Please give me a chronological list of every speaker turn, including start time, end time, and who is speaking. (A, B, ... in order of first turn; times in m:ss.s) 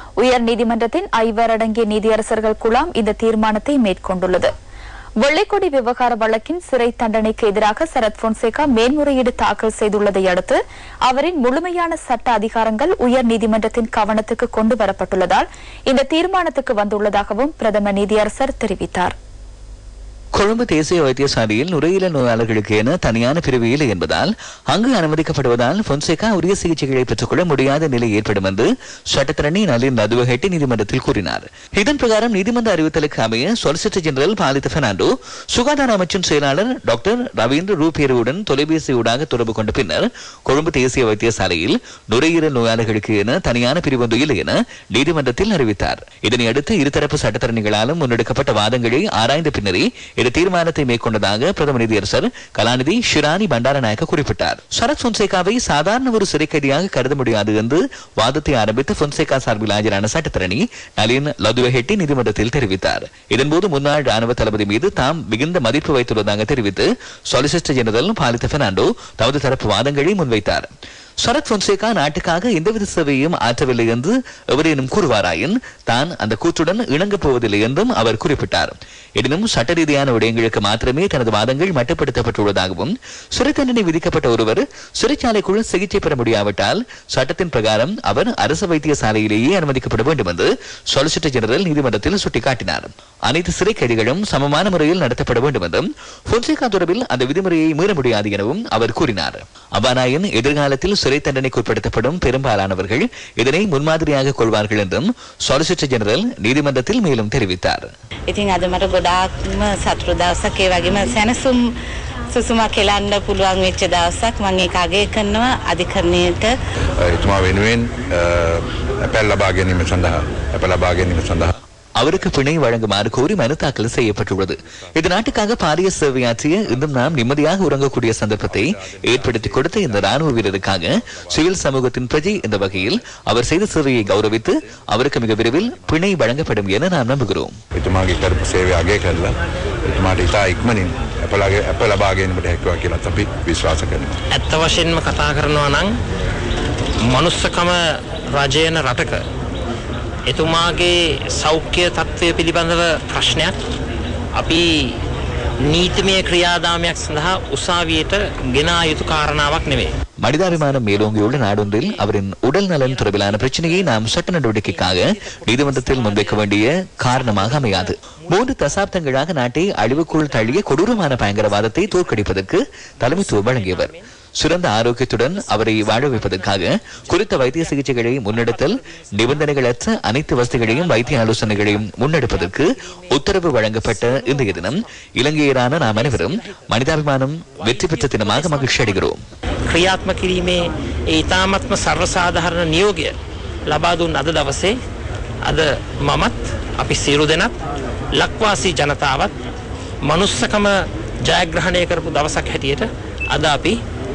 0:00.2-0:04.5 A
0:05.2-0:19.1 A
0:20.4-1:10.7 B
1:11.2-1:47.9 B
1:48.3-1:51.6 C
1:52.3-1:56.5 C
1:57.0-2:01.5 D
2:02.0-2:17.6 B
2:04.0-2:05.6 D
2:06.6-2:14.5 D
2:15.2-2:15.9 D
2:17.8-2:19.3 D
2:19.8-2:24.2 D
2:24.3-2:26.0 E
2:27.1-2:29.2 E
2:30.3-2:33.6 E
2:34.3-2:35.0 E
2:35.6-2:39.9 E
2:40.2-3:09.2 B
2:40.5-2:42.1 E
2:42.8-2:43.9 E
2:44.6-2:48.9 E
2:49.7-2:52.4 E
2:53.0-2:54.0 E
2:55.3-3:04.9 E
3:05.6-3:06.8 E
3:07.6-3:09.1 E
3:09.7-3:13.1 E
3:13.7-3:14.8 E
3:15.4-3:17.6 E
3:18.1-3:19.3 E
3:20.0-3:20.7 E
3:21.2-3:23.8 E